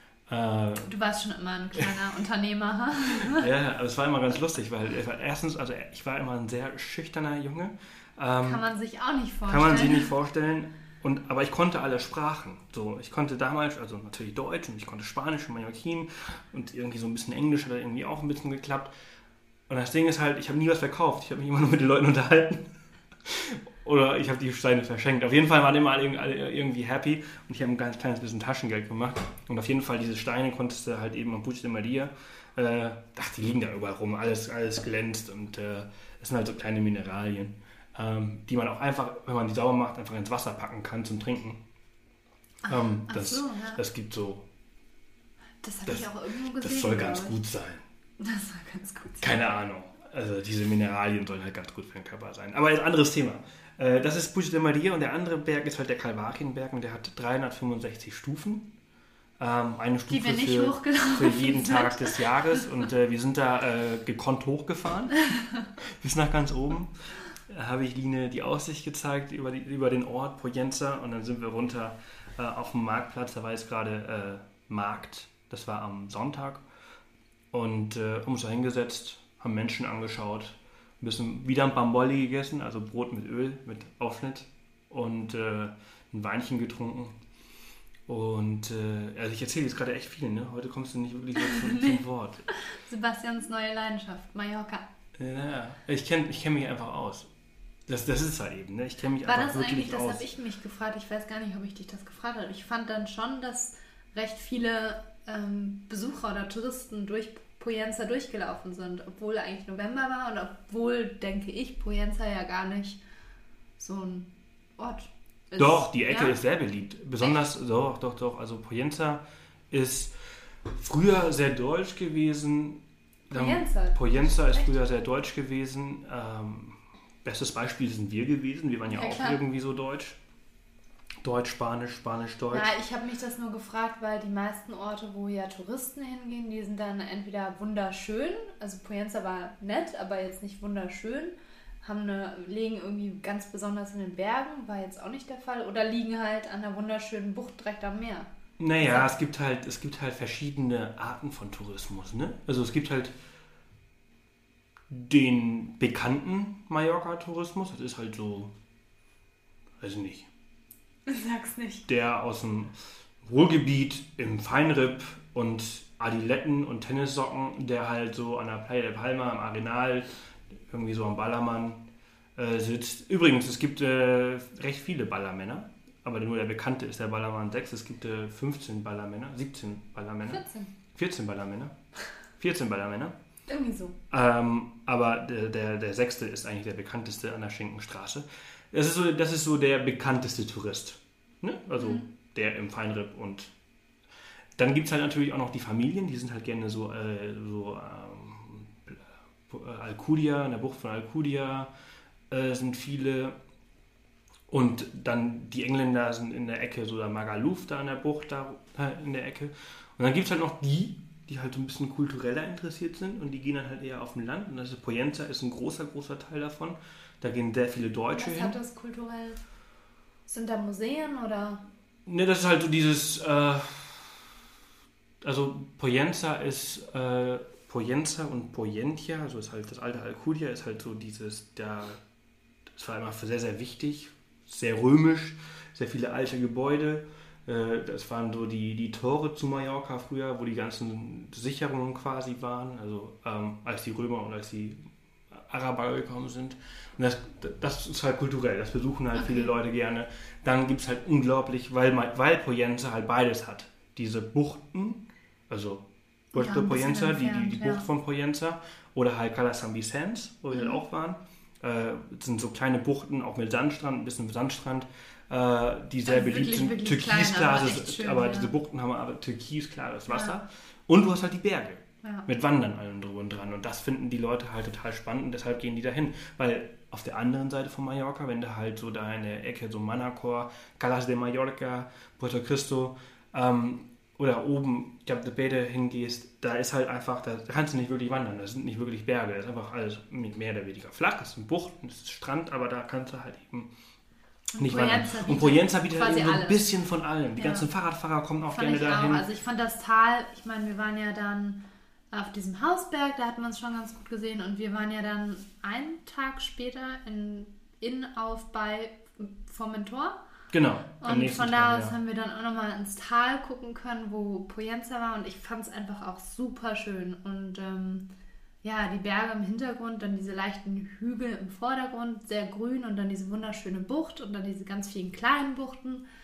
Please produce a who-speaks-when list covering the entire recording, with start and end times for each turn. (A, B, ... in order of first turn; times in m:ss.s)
0:00.3-0:00.9 A
0:00.8-0:03.5 B
0:03.2-0:08.6 A
0:08.4-0:10.1 B
0:09.5-0:18.9 A
0:19.7-0:22.7 A
0:23.2-0:41.6 A
0:42.6-0:43.8 B
0:42.7-0:44.4 A
0:45.6-0:47.4 B
0:45.9-0:47.8 A
0:48.2-0:49.6 B
0:49.2-0:58.7 A
0:59.4-1:05.2 A
1:00.1-1:02.7 B
1:05.8-1:06.9 A
1:07.5-1:16.6 A
1:17.5-1:27.2 A
1:28.1-1:32.5 A
1:31.4-1:32.0 B
1:32.6-1:34.8 B
1:35.2-1:37.3 A
1:37.9-1:40.2 A
1:39.2-1:53.0 B
1:53.8-1:56.4 B
1:55.6-2:00.1 A
2:00.7-2:10.2 A
2:03.3-2:04.8 B
2:08.9-2:09.4 B
2:11.2-2:12.7 A
2:12.5-2:29.1 B
2:28.6-2:33.2 A
2:34.9-2:38.5 A
2:39.8-2:40.3 A
2:41.1-2:41.9 B
2:41.9-2:50.1 A
2:50.7-2:51.8 A
2:52.4-3:00.4 A
3:00.3-3:00.7 B
3:01.0-3:01.7 A
3:02.4-3:03.2 A
3:03.5-3:04.0 B
3:04.1-3:13.5 A
3:11.8-3:12.1 B
3:14.6-3:21.7 A
3:22.3-3:23.4 A
3:24.5-3:38.6 A
3:38.1-3:39.4 B
3:40.3-3:41.6 B
3:42.1-3:44.2 A
3:45.2-3:52.0 A
3:52.7-4:53.7 A
4:09.2-4:09.5 B
4:16.3-4:17.8 B
4:20.5-4:20.8 B
4:26.1-4:28.5 B
4:30.1-4:30.4 B
4:54.5-4:56.6 B
4:54.6-4:59.3 A
4:57.4-4:57.7 B
4:58.5-5:10.2 B
5:10.5-5:11.9 A
5:11.0-5:18.1 B
5:18.6-5:26.0 B